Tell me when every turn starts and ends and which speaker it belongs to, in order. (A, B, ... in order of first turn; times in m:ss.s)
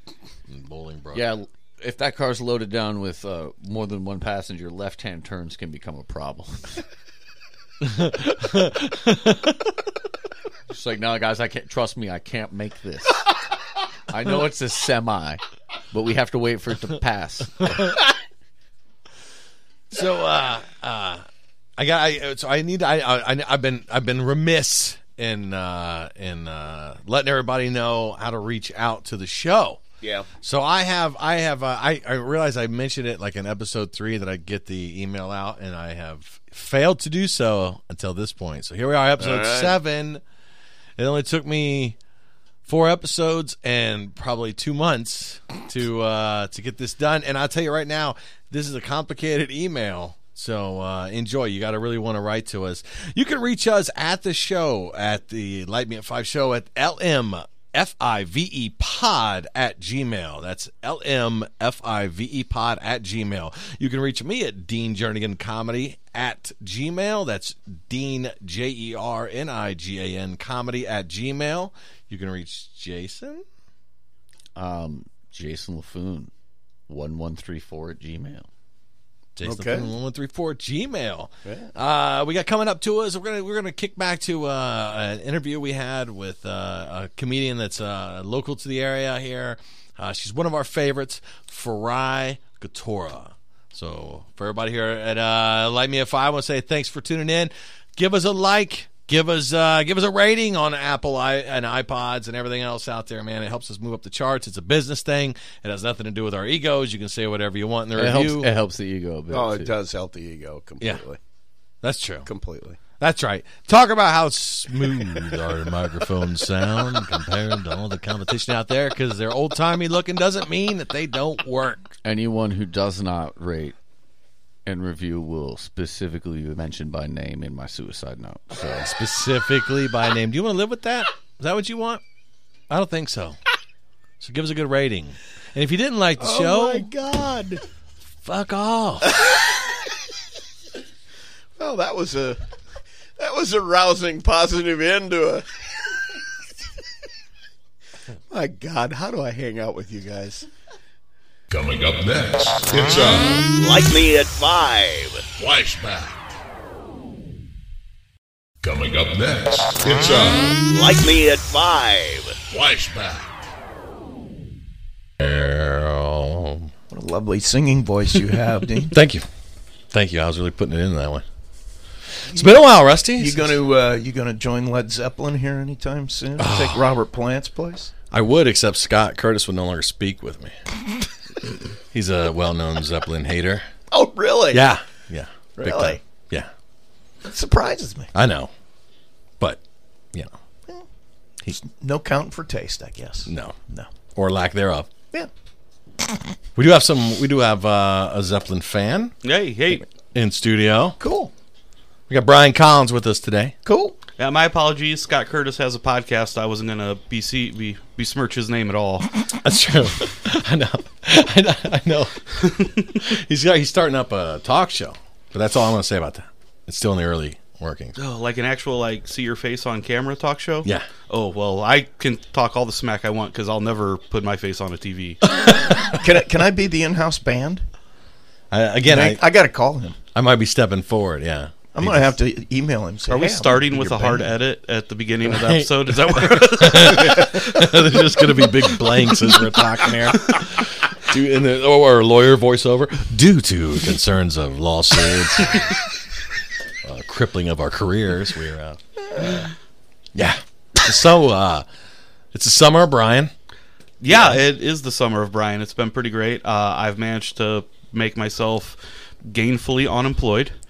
0:00.5-0:01.3 A
0:01.1-0:06.8 B
0:07.8-0:09.7 A
0:10.7-0:13.2 B
0:14.1-0:15.4 B
0:15.9-0:17.8 B
0:19.9-0:21.2 A
0:21.8-0:29.8 A
0:30.0-0:30.3 C
0:30.4-0:40.2 A
0:39.2-0:39.8 C
0:41.0-0:42.0 A
0:42.7-1:13.4 A
1:14.6-1:16.3 B
1:16.9-1:18.5 B
1:19.4-1:48.5 A
1:19.4-1:19.9 C
1:21.4-1:21.7 C
1:48.0-1:49.7 B
1:49.3-1:51.2 C
1:51.8-1:52.3 A
1:52.3-1:52.8 C
1:53.0-2:02.0 A
2:02.0-2:03.8 B
2:04.7-2:08.9 B
2:08.8-2:12.0 A
2:12.7-2:13.4 A
2:14.2-2:16.9 A
2:16.2-2:17.6 C
2:18.2-2:19.2 A
2:19.1-2:19.8 C
2:21.6-2:22.4 C
2:23.2-2:25.5 C
2:28.3-2:30.5 C
2:31.5-2:33.5 D
2:33.6-2:35.3 C
2:35.4-2:36.4 D
2:38.6-2:40.7 D
2:40.7-2:42.4 C
2:42.5-2:43.5 D
2:45.2-2:46.7 A
2:46.9-2:49.0 C
2:48.9-2:49.3 A
2:49.9-2:51.2 A
2:52.2-2:53.5 A
2:52.3-2:52.6 C
2:53.2-2:57.9 C
2:56.4-2:56.9 A
2:58.1-3:00.6 A
3:01.9-3:03.6 A
3:03.9-3:04.7 C
3:04.5-3:06.5 A
3:05.6-3:06.0 C
3:07.2-3:08.1 C
3:08.1-3:08.5 A
3:11.6-3:13.9 C
3:13.3-3:13.6 A
3:14.2-3:14.9 A
3:16.6-3:19.1 A
3:19.2-3:19.9 E
3:20.1-3:21.0 A
3:21.0-3:21.3 C
3:22.1-3:23.5 A
3:23.6-3:24.0 C
3:24.2-3:29.1 E
3:29.3-3:38.0 A
3:38.0-3:45.2 E
3:45.3-3:46.0 A
3:45.9-3:47.6 C
3:48.5-3:49.2 A
3:48.8-3:50.0 C
3:50.2-3:52.2 A
3:51.7-3:54.3 C
3:53.1-3:57.5 E
3:55.3-4:05.8 A
4:06.8-4:09.4 A
4:10.2-4:11.6 A
4:12.3-4:13.3 A
4:14.0-4:20.5 E
4:14.1-4:14.4 A